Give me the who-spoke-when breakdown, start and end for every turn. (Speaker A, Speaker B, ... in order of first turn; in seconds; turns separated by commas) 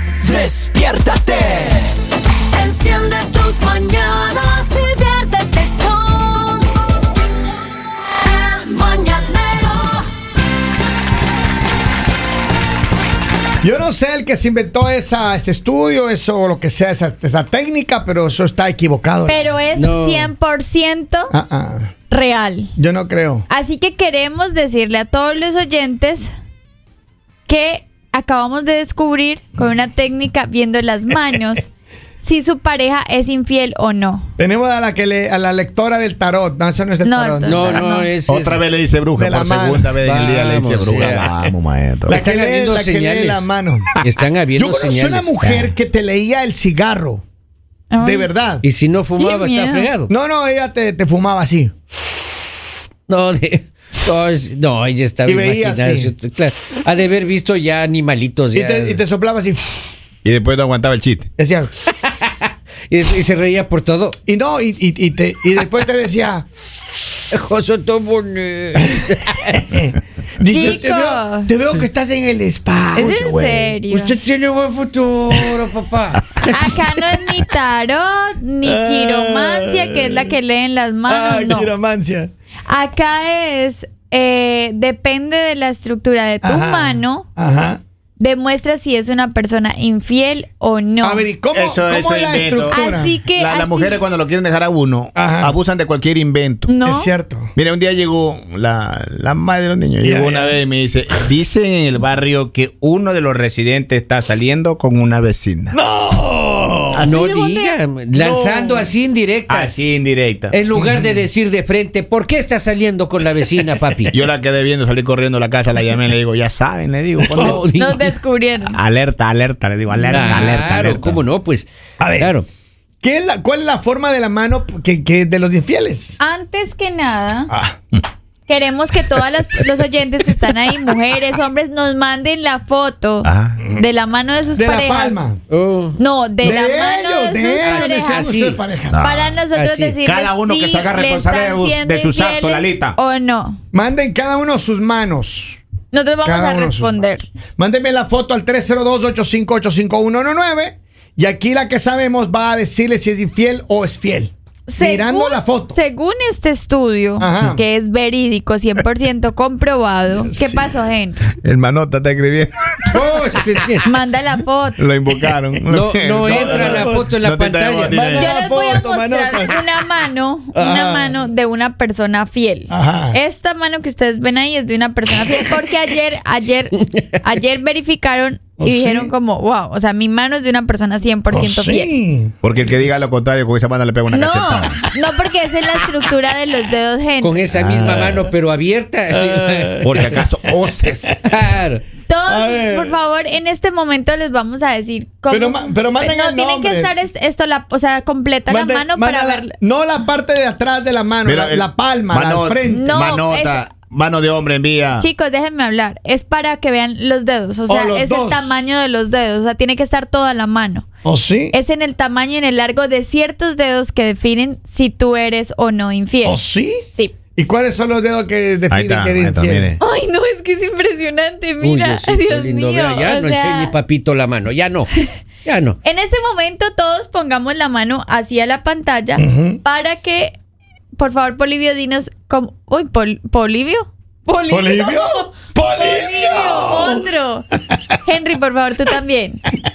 Speaker A: 0.3-1.8, Speaker A: 2.5-6.6, Speaker A: 8.4-10.0, Speaker B: 13.6-19.5, Speaker C: 19.2-21.3, Speaker D: 19.7-20.3, Speaker B: 21.3-21.9, Speaker C: 22.1-22.7, Speaker B: 22.8-23.5, Speaker C: 23.5-26.3, Speaker C: 27.5-34.3, Speaker B: 34.4-37.9, Speaker C: 37.0-38.1, Speaker D: 37.4-38.6, Speaker E: 38.2-42.2, Speaker B: 39.2-40.0, Speaker D: 40.0-41.5, Speaker D: 42.1-43.5, Speaker B: 42.1-44.0, Speaker D: 44.0-45.7, Speaker B: 44.5-47.2, Speaker C: 47.9-48.3, Speaker B: 48.0-48.6, Speaker D: 48.6-50.1, Speaker C: 49.2-49.9, Speaker B: 50.1-51.7, Speaker D: 53.1-59.0, Speaker B: 55.2-56.1, Speaker B: 58.5-59.7, Speaker E: 60.2-61.3, Speaker B: 61.4-61.7, Speaker D: 62.9-64.2, Speaker B: 64.3-66.5, Speaker D: 67.3-69.7, Speaker B: 69.4-73.8, Speaker C: 70.5-71.5, Speaker C: 72.9-74.1, Speaker D: 73.9-76.8, Speaker C: 76.4-81.7, Speaker B: 78.6-80.3, Speaker B: 81.1-82.3, Speaker C: 82.7-87.2, Speaker B: 86.4-87.8, Speaker C: 88.2-91.3, Speaker B: 91.0-93.2, Speaker E: 91.5-96.7, Speaker C: 92.7-94.0, Speaker B: 95.1-95.5, Speaker C: 96.7-97.1, Speaker B: 96.8-97.5, Speaker E: 97.5-105.8, Speaker B: 100.0-100.6, Speaker B: 105.7-107.1, Speaker E: 106.9-107.7, Speaker D: 107.0-109.8, Speaker B: 108.1-108.9, Speaker E: 109.5-110.5, Speaker D: 110.5-114.2, Speaker B: 110.8-111.1, Speaker E: 114.1-117.6, Speaker B: 117.3-117.6, Speaker D: 117.3-118.1, Speaker C: 117.7-118.8, Speaker E: 118.7-121.2, Speaker D: 120.0-122.5, Speaker B: 122.0-122.4, Speaker B: 123.0-126.2, Speaker C: 126.2-127.5, Speaker B: 127.5-127.8, Speaker C: 128.5-135.2, Speaker E: 133.2-133.6, Speaker B: 133.6-133.9, Speaker B: 134.5-135.4, Speaker D: 135.5-136.0, Speaker C: 136.0-138.3, Speaker B: 136.4-139.0, Speaker D: 137.6-138.6, Speaker E: 138.9-139.4, Speaker C: 139.0-143.6, Speaker D: 139.5-140.0, Speaker E: 140.0-142.9, Speaker B: 143.7-145.6, Speaker C: 145.9-147.3, Speaker B: 146.2-147.0, Speaker B: 147.6-155.8, Speaker C: 154.7-161.2, Speaker B: 157.2-157.6, Speaker B: 160.2-160.8, Speaker E: 161.4-163.0, Speaker D: 162.9-163.9, Speaker C: 163.8-164.8, Speaker E: 164.8-168.3, Speaker B: 165.3-165.6, Speaker D: 165.7-168.0, Speaker B: 166.2-167.1, Speaker B: 167.9-169.6, Speaker C: 168.1-181.9, Speaker B: 170.5-171.2, Speaker B: 172.7-173.2, Speaker B: 178.6-179.1, Speaker B: 181.3-183.0, Speaker E: 182.4-184.8, Speaker C: 184.1-187.3, Speaker D: 187.2-190.2, Speaker E: 187.5-188.3, Speaker B: 189.1-190.2, Speaker E: 189.8-191.2, Speaker B: 190.8-191.1, Speaker D: 191.3-191.8, Speaker C: 192.1-199.5, Speaker B: 192.3-193.0, Speaker B: 195.3-196.9, Speaker B: 198.5-203.0, Speaker E: 201.2-205.1, Speaker C: 202.7-203.7, Speaker C: 205.0-210.8, Speaker B: 207.7-208.6, Speaker B: 211.0-211.5, Speaker C: 211.5-216.4, Speaker B: 216.2-216.8, Speaker B: 217.3-219.7, Speaker E: 218.7-219.8, Speaker C: 219.8-223.7, Speaker D: 221.6-224.9, Speaker D: 225.4-225.8, Speaker C: 225.8-230.4, Speaker B: 229.2-229.6, Speaker C: 231.0-237.5, Speaker B: 234.5-237.1, Speaker C: 238.0-239.4